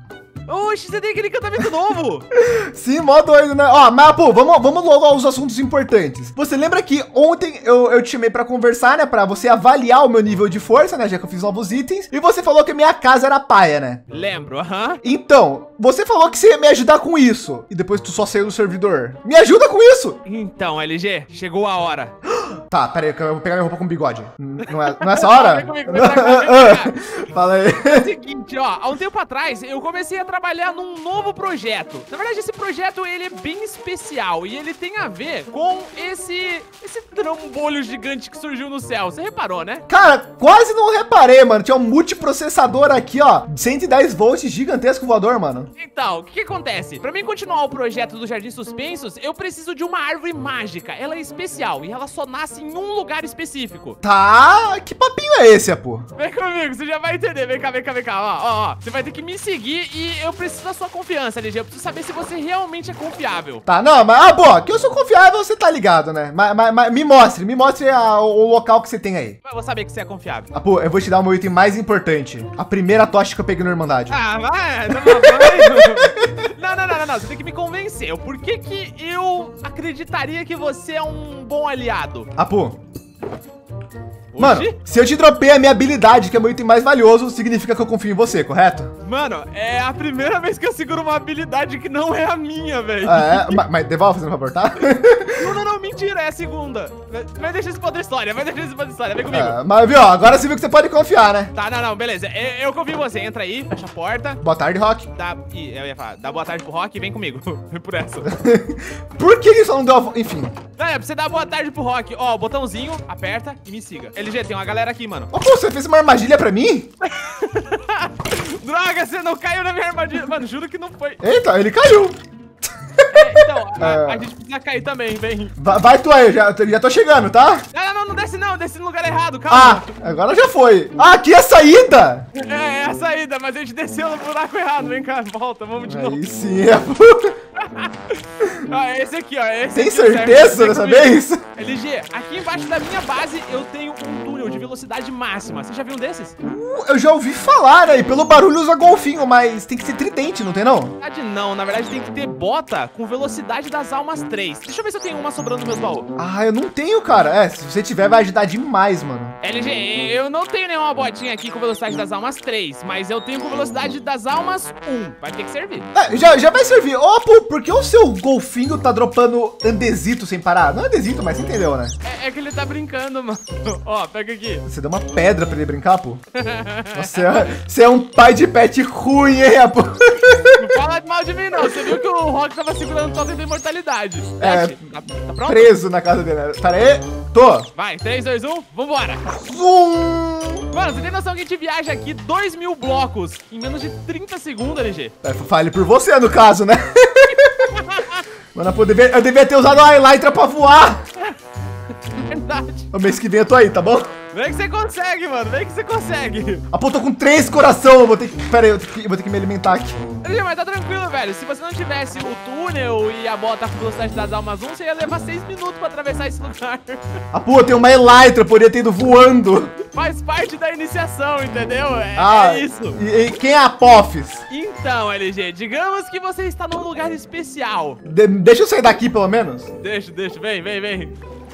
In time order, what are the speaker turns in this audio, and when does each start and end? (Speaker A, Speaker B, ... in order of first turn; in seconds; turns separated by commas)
Speaker A: 0.5-2.3, Speaker B: 2.4-14.0, Speaker A: 14.1-15.0, Speaker B: 15.0-20.2, Speaker A: 20.3-22.2, Speaker B: 22.7-28.1, Speaker A: 24.6-27.0, Speaker A: 27.8-39.9, Speaker B: 39.9-45.7, Speaker A: 45.8-54.0, Speaker B: 54.0-56.1, Speaker A: 56.1-63.6, Speaker B: 63.7-69.4, Speaker A: 69.4-70.5, Speaker B: 70.5-74.2, Speaker A: 74.1-82.3, Speaker B: 74.9-76.3, Speaker B: 82.4-82.8, Speaker A: 84.3-84.8, Speaker B: 84.4-88.9, Speaker A: 89.0-93.6, Speaker B: 93.0-95.5, Speaker A: 95.3-99.6, Speaker B: 99.3-101.5, Speaker A: 101.5-104.4, Speaker B: 104.4-105.1, Speaker A: 105.2-108.3, Speaker B: 108.3-110.6, Speaker A: 110.8-115.3, Speaker B: 115.3-116.9, Speaker A: 117.0-121.2, Speaker B: 121.2-122.2, Speaker B: 123.0-124.3, Speaker A: 123.1-125.5, Speaker B: 125.6-127.7, Speaker A: 127.7-129.9, Speaker B: 129.5-132.3, Speaker A: 132.3-136.2, Speaker B: 135.9-137.4, Speaker A: 137.6-146.3, Speaker B: 139.7-141.4, Speaker B: 146.4-151.0, Speaker A: 151.0-156.1, Speaker B: 156.2-159.4, Speaker A: 159.4-165.9, Speaker B: 165.9-171.9, Speaker A: 172.0-174.7, Speaker B: 174.7-176.2, Speaker A: 176.4-177.5, Speaker B: 176.9-180.7, Speaker A: 180.5-185.7, Speaker B: 184.4-184.8, Speaker B: 185.4-187.7, Speaker A: 187.8-189.2, Speaker B: 189.3-190.7, Speaker A: 190.7-195.1, Speaker B: 195.2-197.7, Speaker A: 197.6-198.2, Speaker B: 198.5-201.0, Speaker A: 202.1-202.9, Speaker B: 202.9-204.1, Speaker A: 204.3-206.6, Speaker B: 206.7-210.0, Speaker A: 210.2-217.0, Speaker B: 217.3-219.8, Speaker A: 219.9-223.0, Speaker B: 222.2-224.4, Speaker A: 224.5-228.0, Speaker B: 228.1-229.7, Speaker A: 229.8-231.2